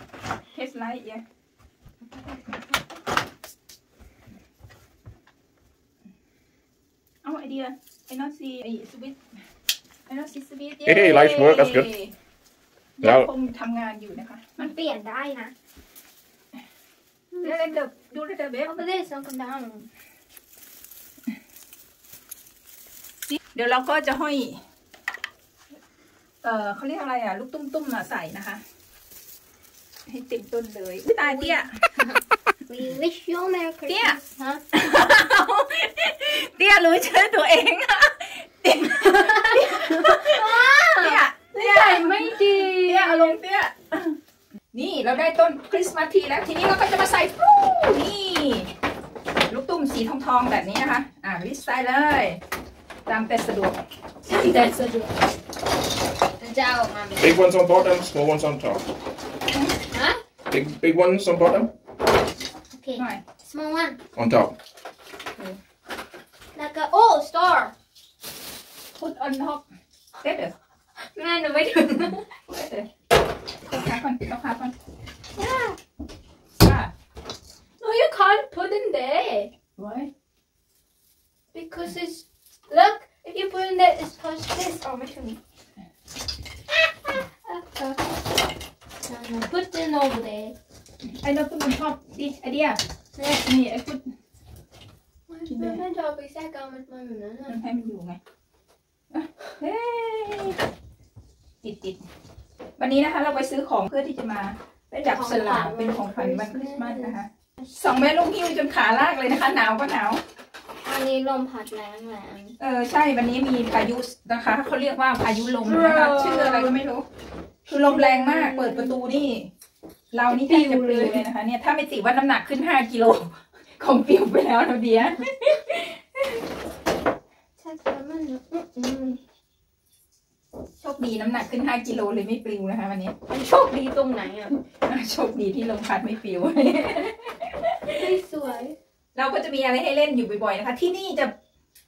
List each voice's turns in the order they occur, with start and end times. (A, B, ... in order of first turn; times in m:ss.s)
0:00.5-0:01.2 A
0:07.2-0:09.2 A
0:10.1-0:12.1 A
0:10.8-0:11.9 B
0:13.0-0:14.7 A
0:13.0-0:13.3 B
0:14.6-0:15.5 C
0:17.3-0:17.7 C
0:17.4-0:18.8 A
0:18.7-0:19.9 C
0:23.3-0:24.6 A
0:26.4-0:28.6 A
0:30.1-0:31.7 A
0:31.2-0:34.6 C
0:33.9-0:34.2 A
0:34.7-0:44.2 A
0:39.0-0:43.4 C
0:44.7-0:48.7 A
0:49.5-0:52.4 A
0:53.1-0:53.8 A
0:54.3-0:55.1 C
0:56.4-0:57.4 C
0:57.2-0:58.8 B
0:59.9-1:00.2 C
1:00.5-1:01.7 B
1:02.7-1:04.0 C
1:03.0-1:03.2 A
1:04.2-1:04.5 B
1:06.5-1:07.7 C
1:09.0-1:09.6 A
1:10.2-1:10.5 A
1:11.1-1:12.2 C
1:12.5-1:12.9 A
1:13.7-1:14.7 A
1:15.4-1:15.8 C
1:16.6-1:16.9 A
1:17.8-1:19.5 C
1:19.8-1:20.1 A
1:21.5-1:25.4 C
1:26.7-1:28.0 C
1:29.1-1:30.5 C
1:31.0-1:32.8 A
1:33.2-1:33.4 C
1:33.4-1:34.1 A
1:35.3-1:37.6 C
1:35.5-1:35.8 A
1:37.5-1:38.2 A
1:39.1-1:40.6 A
1:41.6-1:42.0 A
1:42.8-1:50.2 A
1:45.0-1:47.2 C
1:50.8-1:52.5 C
1:52.6-1:57.0 A
1:55.6-1:56.8 C
1:57.7-1:59.5 A
1:57.7-1:59.0 C
2:00.1-2:06.4 A
2:00.3-2:01.2 C
2:07.6-2:09.2 C
2:10.8-2:13.1 A
2:13.3-2:14.5 C
2:14.8-2:18.1 A
2:17.9-2:18.7 C
2:19.1-2:21.3 A